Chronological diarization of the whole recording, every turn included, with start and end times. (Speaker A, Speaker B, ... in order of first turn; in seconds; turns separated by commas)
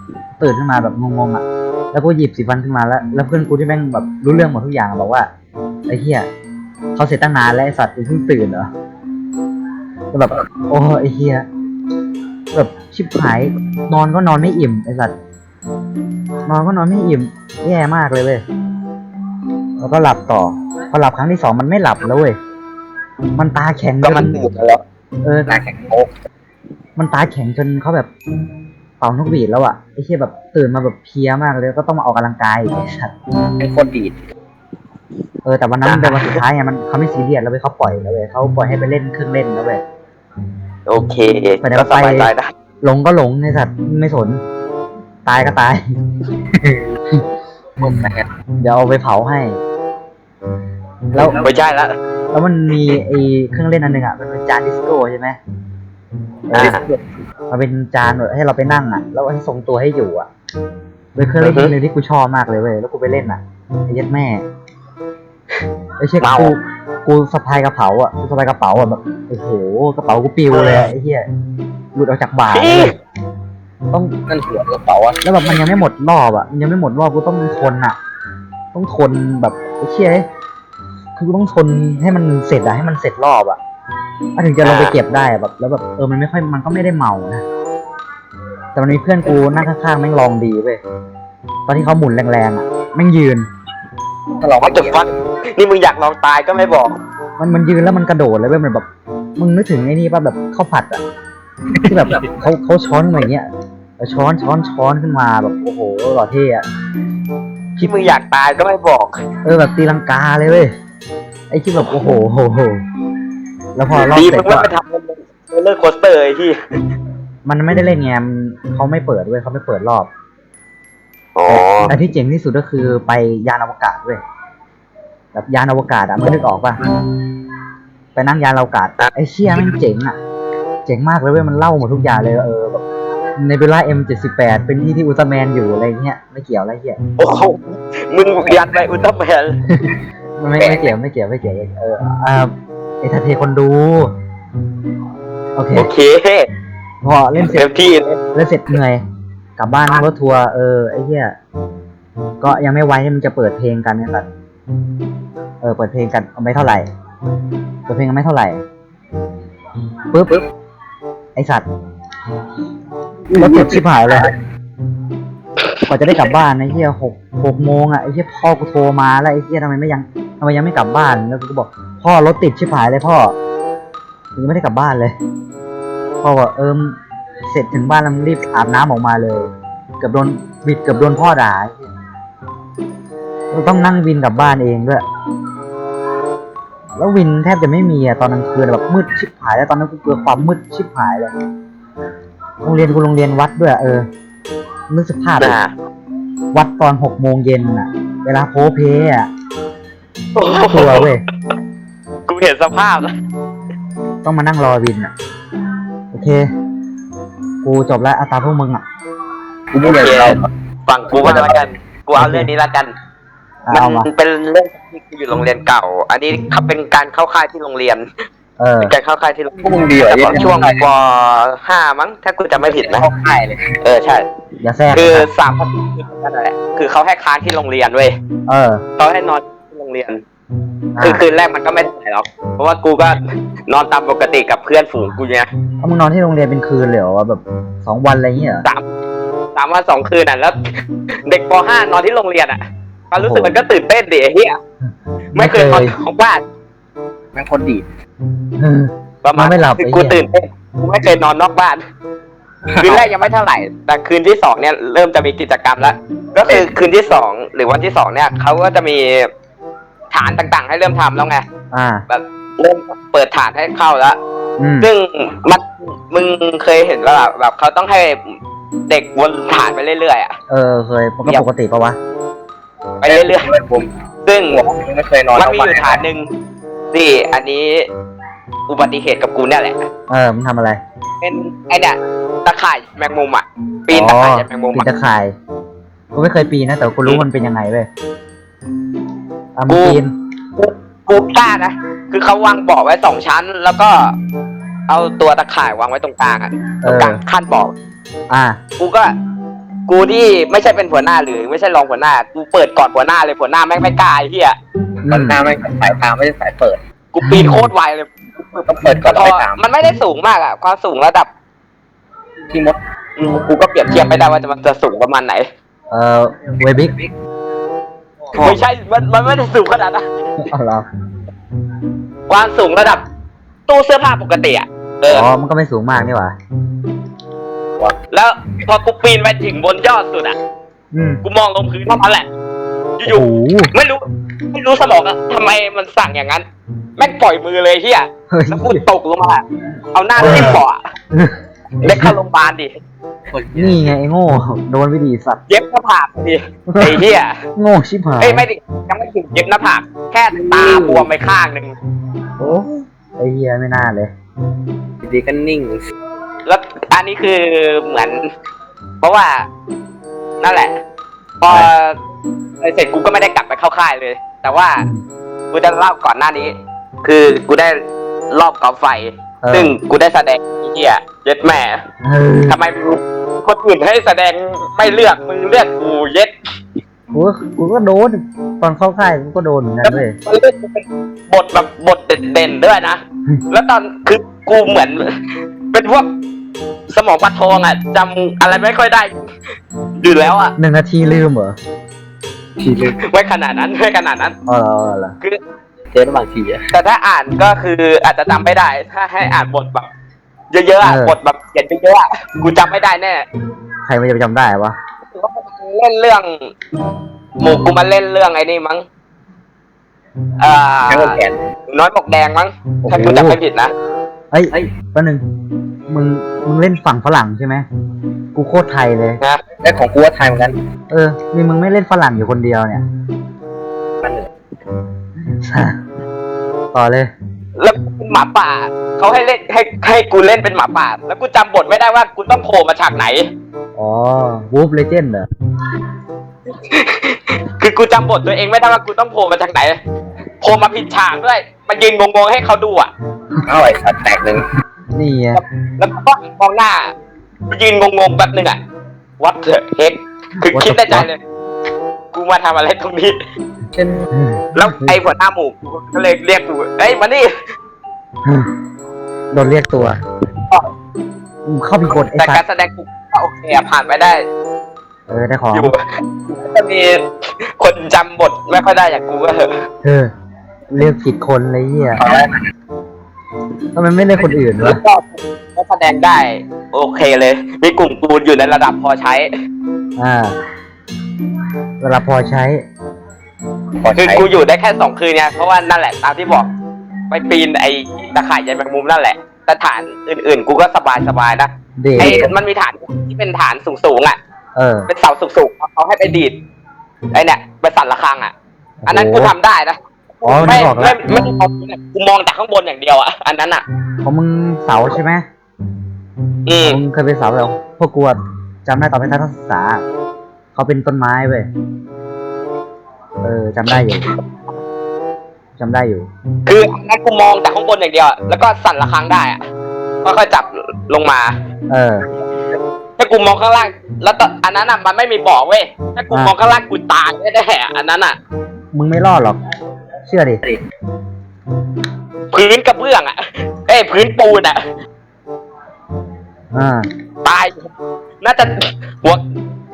Speaker A: 0.4-5.3, Speaker A: 5.9-6.3, Speaker A: 7.0-8.7, Speaker A: 10.1-11.4, Speaker A: 12.5-15.1, Speaker A: 16.4-18.4, Speaker A: 19.8-22.4, Speaker A: 23.4-24.4, Speaker B: 24.0-24.8, Speaker A: 25.2-25.5, Speaker C: 25.5-26.1, Speaker A: 27.0-28.1, Speaker A: 29.0-33.1, Speaker C: 33.6-34.2, Speaker A: 35.4-39.8, Speaker B: 35.8-36.4, Speaker B: 40.9-42.5, Speaker A: 41.6-42.3, Speaker A: 42.8-44.4, Speaker A: 45.2-45.8, Speaker C: 46.5-47.0, Speaker C: 47.8-48.3, Speaker A: 48.6-49.6, Speaker C: 51.1-51.4, Speaker B: 51.3-51.9, Speaker A: 52.3-55.4, Speaker A: 56.5-56.8, Speaker B: 56.5-56.8, Speaker C: 56.5-57.0, Speaker A: 57.5-60.3, Speaker A: 61.1-64.4, Speaker B: 61.4-61.7, Speaker A: 66.0-71.3, Speaker B: 66.2-66.5, Speaker A: 71.9-72.9, Speaker B: 72.5-72.9, Speaker C: 74.3-75.2, Speaker A: 75.2-78.0, Speaker A: 78.7-80.2, Speaker A: 81.2-83.6, Speaker A: 84.3-87.4, Speaker B: 84.6-84.9, Speaker A: 88.7-90.8, Speaker A: 91.7-93.5, Speaker C: 94.4-95.1, Speaker B: 94.6-97.0, Speaker A: 97.4-98.8, Speaker A: 99.4-101.0, Speaker C: 101.8-102.2, Speaker A: 101.8-103.5, Speaker A: 104.0-106.6, Speaker B: 107.8-109.2, Speaker A: 109.4-110.7, Speaker A: 111.5-112.8, Speaker A: 113.8-114.7, Speaker B: 113.9-116.5, Speaker A: 117.5-120.1, Speaker B: 121.3-121.9, Speaker A: 121.5-124.2, Speaker A: 125.3-126.8, Speaker A: 128.2-130.2, Speaker A: 130.8-132.8, Speaker A: 133.4-137.0, Speaker B: 137.2-139.6, Speaker A: 139.7-142.5, Speaker B: 140.6-140.9, Speaker A: 143.0-144.1, Speaker A: 145.6-145.9, Speaker B: 145.7-146.5, Speaker A: 147.0-147.7, Speaker B: 147.4-148.2, Speaker A: 148.3-149.0, Speaker A: 149.6-151.3, Speaker A: 152.4-154.3, Speaker A: 155.6-156.9, Speaker A: 157.9-158.6, Speaker A: 160.1-160.4, Speaker A: 161.3-161.7, Speaker C: 163.3-163.8, Speaker A: 163.3-164.3, Speaker A: 165.9-173.3, Speaker A: 174.3-175.1, Speaker A: 176.2-179.5, Speaker A: 180.0-181.9, Speaker A: 183.5-185.0, Speaker A: 187.0-191.3, Speaker A: 192.6-194.1, Speaker A: 194.9-195.6, Speaker B: 195.4-195.7, Speaker A: 196.5-199.3, Speaker B: 200.3-201.1, Speaker A: 200.7-201.2, Speaker B: 202.3-203.1, Speaker A: 204.2-205.1, Speaker A: 206.1-206.4, Speaker A: 207.6-208.8, Speaker C: 209.7-210.5, Speaker B: 209.8-212.9, Speaker C: 211.1-211.6, Speaker A: 212.1-212.5, Speaker A: 213.7-214.1, Speaker B: 213.7-218.1, Speaker A: 218.6-218.9, Speaker B: 218.8-223.1, Speaker C: 219.6-220.8, Speaker C: 222.6-223.7, Speaker B: 223.8-224.2, Speaker A: 224.6-225.3, Speaker B: 224.9-228.2, Speaker A: 228.5-228.8, Speaker B: 229.0-230.2, Speaker A: 230.9-231.2, Speaker B: 231.0-235.5, Speaker A: 235.8-238.7, Speaker B: 239.5-240.6, Speaker B: 241.2-244.6, Speaker A: 243.2-243.6, Speaker B: 245.3-246.4, Speaker A: 245.3-245.9, Speaker C: 247.3-247.8, Speaker A: 248.6-250.2, Speaker B: 249.2-251.8, Speaker C: 252.7-253.1, Speaker B: 252.8-259.3, Speaker B: 260.1-261.4, Speaker A: 261.7-262.0, Speaker B: 262.1-264.2, Speaker A: 264.6-264.9, Speaker B: 264.8-268.3, Speaker B: 268.9-270.3, Speaker A: 270.5-272.0, Speaker B: 273.0-273.5, Speaker C: 273.0-273.9, Speaker B: 274.2-274.6, Speaker C: 274.5-276.0, Speaker B: 275.4-276.3, Speaker B: 276.9-277.9, Speaker B: 278.7-279.9, Speaker A: 280.1-280.8, Speaker B: 281.2-284.9, Speaker A: 283.9-285.3, Speaker A: 286.1-287.9, Speaker A: 289.6-290.1, Speaker B: 289.7-290.0, Speaker B: 290.6-294.1, Speaker B: 294.9-297.7, Speaker A: 296.8-297.2, Speaker A: 298.3-298.6, Speaker B: 298.8-299.1, Speaker B: 299.9-304.6, Speaker A: 305.0-305.4, Speaker C: 305.1-306.8, Speaker B: 307.1-311.3, Speaker A: 307.2-307.7, Speaker C: 308.6-309.6, Speaker C: 312.5-312.8, Speaker B: 313.2-315.4, Speaker A: 315.9-317.0, Speaker C: 318.3-318.6, Speaker B: 318.4-320.0, Speaker A: 320.4-320.9, Speaker B: 322.3-323.0, Speaker B: 323.7-325.3, Speaker A: 325.1-326.3, Speaker B: 328.1-330.3, Speaker A: 330.9-331.2, Speaker B: 331.2-332.2, Speaker B: 333.0-336.4, Speaker A: 333.1-333.7, Speaker B: 337.0-340.8, Speaker A: 338.3-338.8, Speaker A: 340.2-340.6, Speaker A: 341.1-342.1, Speaker B: 341.8-342.7, Speaker C: 343.3-343.8, Speaker A: 343.6-345.4, Speaker B: 345.5-347.4, Speaker A: 346.7-347.0, Speaker A: 347.6-348.4, Speaker B: 348.2-351.7, Speaker C: 350.3-351.1, Speaker A: 352.4-354.1, Speaker C: 355.0-355.9, Speaker B: 356.4-358.2, Speaker B: 359.0-359.5, Speaker B: 360.4-360.7, Speaker B: 361.4-362.0, Speaker B: 362.6-364.8, Speaker B: 365.5-367.8, Speaker B: 368.3-371.8, Speaker A: 369.4-369.7, Speaker A: 372.0-372.6, Speaker B: 372.5-376.3, Speaker A: 377.1-380.1, Speaker B: 379.8-385.0, Speaker B: 385.7-386.1, Speaker B: 386.9-389.2, Speaker B: 390.0-390.5, Speaker A: 390.6-391.6, Speaker C: 392.6-392.9, Speaker B: 393.0-394.3, Speaker A: 394.5-395.1, Speaker C: 395.9-396.7, Speaker B: 396.7-399.9, Speaker B: 400.5-403.2, Speaker A: 400.8-401.1, Speaker A: 403.9-404.7, Speaker B: 405.1-406.5, Speaker B: 407.4-408.8, Speaker B: 410.4-413.7, Speaker C: 410.9-411.4, Speaker A: 412.8-413.4, Speaker A: 414.3-415.2, Speaker A: 415.9-417.6, Speaker A: 418.3-419.2, Speaker C: 419.6-420.6, Speaker A: 420.9-422.8, Speaker C: 424.0-424.3, Speaker A: 425.3-425.8, Speaker A: 426.7-427.1, Speaker B: 427.6-433.3, Speaker A: 433.8-435.3, Speaker B: 436.5-439.8, Speaker B: 440.4-442.9, Speaker C: 443.4-444.5, Speaker A: 444.9-445.4, Speaker B: 445.3-446.9, Speaker B: 447.5-448.6, Speaker B: 449.2-451.2, Speaker A: 450.5-451.1, Speaker B: 452.1-453.2, Speaker C: 453.7-454.1, Speaker A: 454.1-455.0, Speaker B: 454.5-457.3, Speaker A: 458.2-458.5, Speaker A: 459.3-460.0, Speaker A: 461.4-462.4, Speaker B: 462.1-464.2, Speaker A: 465.1-465.7, Speaker B: 465.5-469.5, Speaker A: 469.8-470.1, Speaker A: 470.7-472.0, Speaker C: 472.0-472.4, Speaker A: 473.7-474.8, Speaker B: 474.6-479.3, Speaker A: 480.0-480.3, Speaker A: 481.8-482.6, Speaker C: 483.8-484.3, Speaker B: 483.9-486.5, Speaker B: 487.1-494.2, Speaker A: 491.8-492.2, Speaker C: 492.0-492.3, Speaker A: 494.6-494.9, Speaker B: 494.9-496.4, Speaker B: 497.1-498.3, Speaker A: 498.8-499.3, Speaker B: 498.9-503.6, Speaker A: 500.2-501.0, Speaker A: 504.0-505.2, Speaker B: 506.4-506.8, Speaker A: 506.6-509.8, Speaker A: 510.5-511.5, Speaker A: 513.2-514.1, Speaker B: 513.7-514.2, Speaker A: 515.6-516.1, Speaker B: 516.5-519.4, Speaker B: 520.0-521.3, Speaker A: 521.7-522.0, Speaker B: 523.0-528.1, Speaker A: 528.7-529.4, Speaker A: 530.0-530.4, Speaker B: 532.3-534.6, Speaker A: 536.5-536.9, Speaker B: 537.2-537.7, Speaker B: 538.2-539.2